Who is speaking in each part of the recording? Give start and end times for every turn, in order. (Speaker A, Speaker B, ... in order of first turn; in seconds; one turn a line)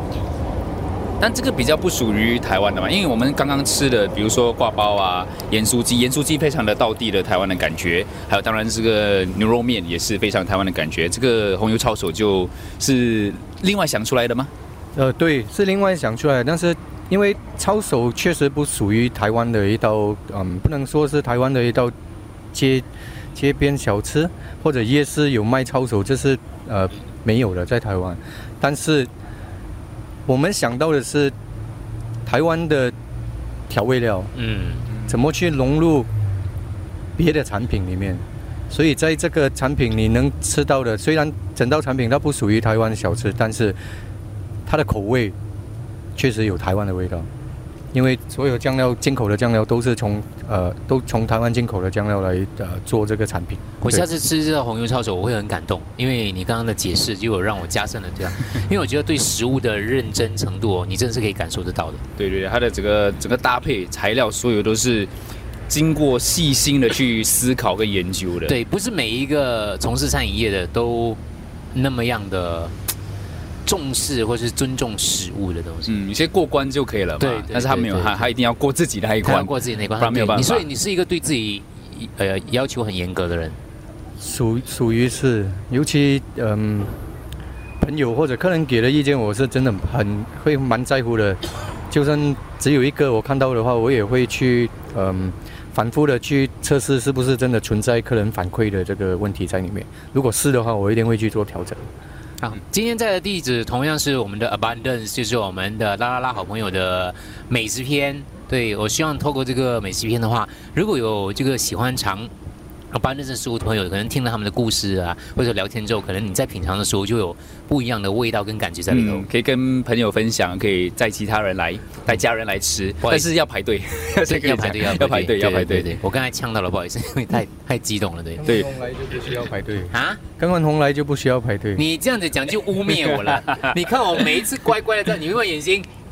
Speaker A: 1.2-14.5
Speaker B: 14.9-21.9
Speaker B: 22.5-29.1
Speaker B: 30.2-31.3
Speaker B: 32.2-32.9
Speaker B: 33.7-34.3
Speaker C: 34.3-34.9
Speaker B: 35.0-36.1
Speaker B: 37.2-43.8
Speaker B: 44.6-45.3
Speaker B: 46.1-47.3
Speaker B: 47.9-54.0
Speaker C: 53.8-62.0
Speaker A: 62.2-65.1
Speaker A: 65.7-68.6
Speaker C: 68.5-71.2
Speaker C: 71.7-72.7
Speaker C: 73.6-75.9
Speaker A: 75.8-80.7
Speaker C: 77.2-78.3
Speaker C: 79.2-83.6
Speaker B: 84.2-86.9
Speaker B: 87.8-101.8
Speaker C: 102.4-112.3
Speaker C: 112.9-119.3
Speaker A: 118.9-125.9
Speaker C: 123.0-123.3
Speaker C: 124.2-128.5
Speaker B: 128.3-131.8
Speaker A: 128.4-128.7
Speaker C: 129.9-130.2
Speaker C: 131.8-135.9
Speaker A: 132.9-133.4